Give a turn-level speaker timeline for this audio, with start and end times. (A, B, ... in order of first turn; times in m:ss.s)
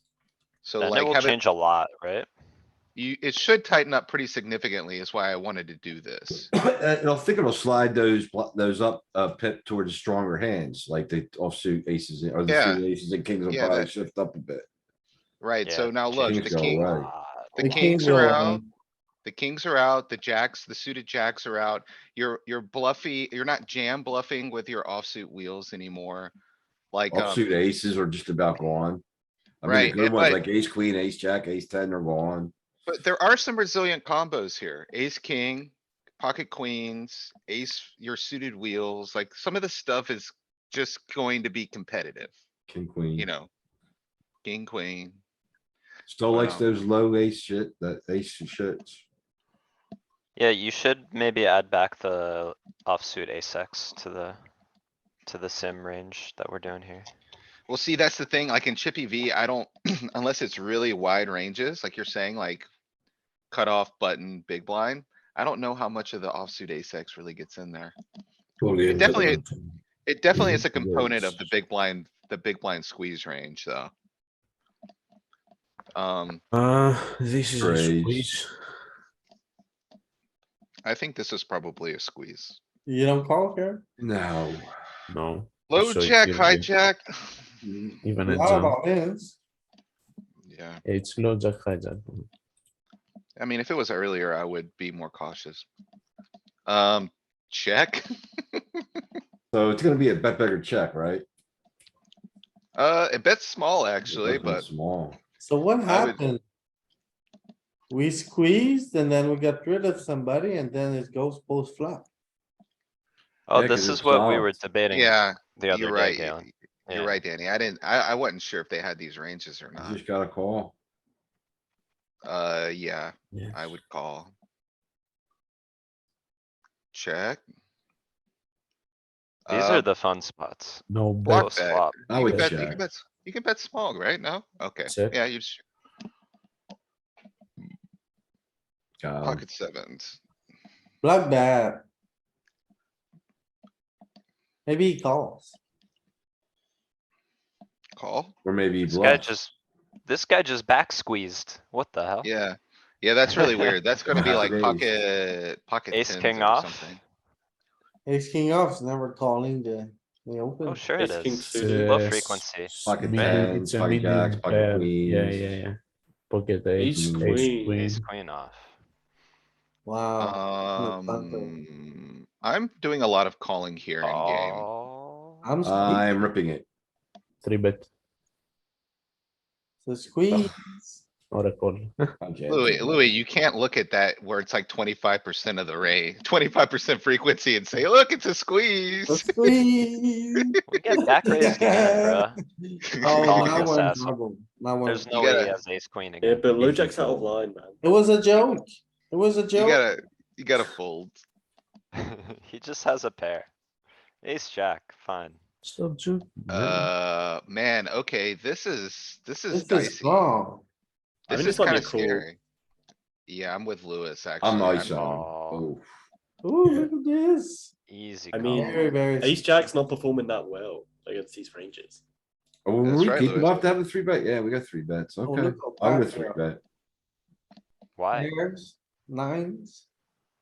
0:00.6-0:01.4 A
0:00.8-0:02.3 B
0:03.0-0:06.5 A
0:06.3-0:14.6 C
0:12.5-0:12.8 A
0:13.5-0:13.9 A
0:15.4-0:16.9 A
0:15.6-0:18.4 B
0:16.1-0:17.1 C
0:17.6-0:18.7 D
0:17.6-0:18.6 A
0:19.2-0:26.3 A
0:26.9-0:27.5 A
0:27.1-0:29.0 C
0:29.6-0:32.5 C
0:29.6-0:30.4 A
0:32.9-0:42.3 A
0:42.7-0:43.3 C
0:43.2-0:43.5 A
0:44.4-0:45.2 A
0:46.1-0:49.0 C
0:46.3-0:46.7 A
0:50.4-0:54.4 B
0:55.2-0:57.1 B
0:57.7-1:02.7 A
1:03.5-1:07.9 A
1:08.6-1:09.5 E
1:08.6-1:09.4 C
1:08.9-1:09.4 A
1:10.0-1:13.9 A
1:10.4-1:11.4 E
1:15.9-1:16.4 A
1:16.5-1:18.5 E
1:17.6-1:18.3 C
1:20.8-1:22.6 A
1:22.8-1:23.8 D
1:24.0-1:24.7 C
1:25.1-1:26.7 E
1:25.7-1:27.4 A
1:27.6-1:28.0 C
1:28.0-1:28.8 E
1:28.3-1:29.4 D
1:30.4-1:30.8 A
1:30.8-1:32.3 E
1:33.4-1:35.6 A
1:36.6-1:38.0 A
1:39.5-1:41.2 C
1:42.8-1:44.6 A
1:44.1-1:45.2 C
1:45.4-1:46.4 D
1:45.8-1:46.2 A
1:47.9-1:52.1 D
1:53.5-1:57.2 B
1:53.5-1:54.5 C
1:54.9-2:00.0 A
1:59.8-2:00.7 C
2:02.2-2:04.3 A
2:03.3-2:03.7 E
2:06.9-2:07.4 A
2:09.5-2:09.9 A
2:09.5-2:12.0 B
2:10.9-2:11.6 E
2:11.2-2:15.6 A
2:12.1-2:12.8 C
2:12.2-2:12.6 E
2:14.8-2:15.2 E
2:19.0-2:19.4 C
2:19.2-2:20.2 A
2:21.0-2:21.8 D
2:24.6-2:25.6 D
2:28.0-2:28.3 A
2:28.4-2:29.3 C
2:28.9-2:29.5 B
2:30.0-2:32.3 B
2:32.2-2:37.0 A
2:34.1-2:34.9 C
2:35.9-2:37.0 B
2:38.0-2:40.9 D
2:40.6-2:43.5 B
2:40.9-2:42.0 F
2:41.3-2:45.8 E
2:42.8-2:45.6 C
2:46.3-2:48.0 E
2:46.8-2:47.8 F
2:46.8-2:47.5 C
2:47.6-2:48.7 B
2:49.8-2:51.6 D
2:50.2-2:54.6 A
2:54.0-2:55.5 B
2:55.4-2:56.2 D
2:55.6-2:56.6 C
2:57.4-2:57.9 E
2:59.8-3:01.0 D
3:01.3-3:02.1 E
3:02.2-3:03.0 C
3:02.5-3:09.6 A
3:09.1-3:10.5 D
3:10.7-3:12.4 B
3:11.3-3:15.0 D
3:13.0-3:13.7 A
3:13.1-3:14.1 B
3:14.8-3:17.1 B
3:15.1-3:15.6 A
3:16.2-3:17.8 F
3:16.6-3:17.1 C
3:17.8-3:19.8 D
3:19.5-3:21.2 A
3:22.0-3:23.5 B
3:24.2-3:25.4 B
3:25.6-3:26.9 E
3:26.5-3:30.2 A
3:29.5-3:30.6 D
3:31.3-3:32.4 A
3:31.3-3:32.2 F
3:33.3-3:35.1 A
3:34.4-3:35.8 C
3:34.9-3:35.7 B
3:36.4-3:37.7 D
3:37.9-3:38.9 B
3:38.3-3:42.0 F
3:38.5-3:39.4 D
3:42.6-3:46.6 C
3:42.8-3:43.7 A
3:45.2-3:46.4 D
3:48.0-3:48.3 B
3:48.1-3:49.8 D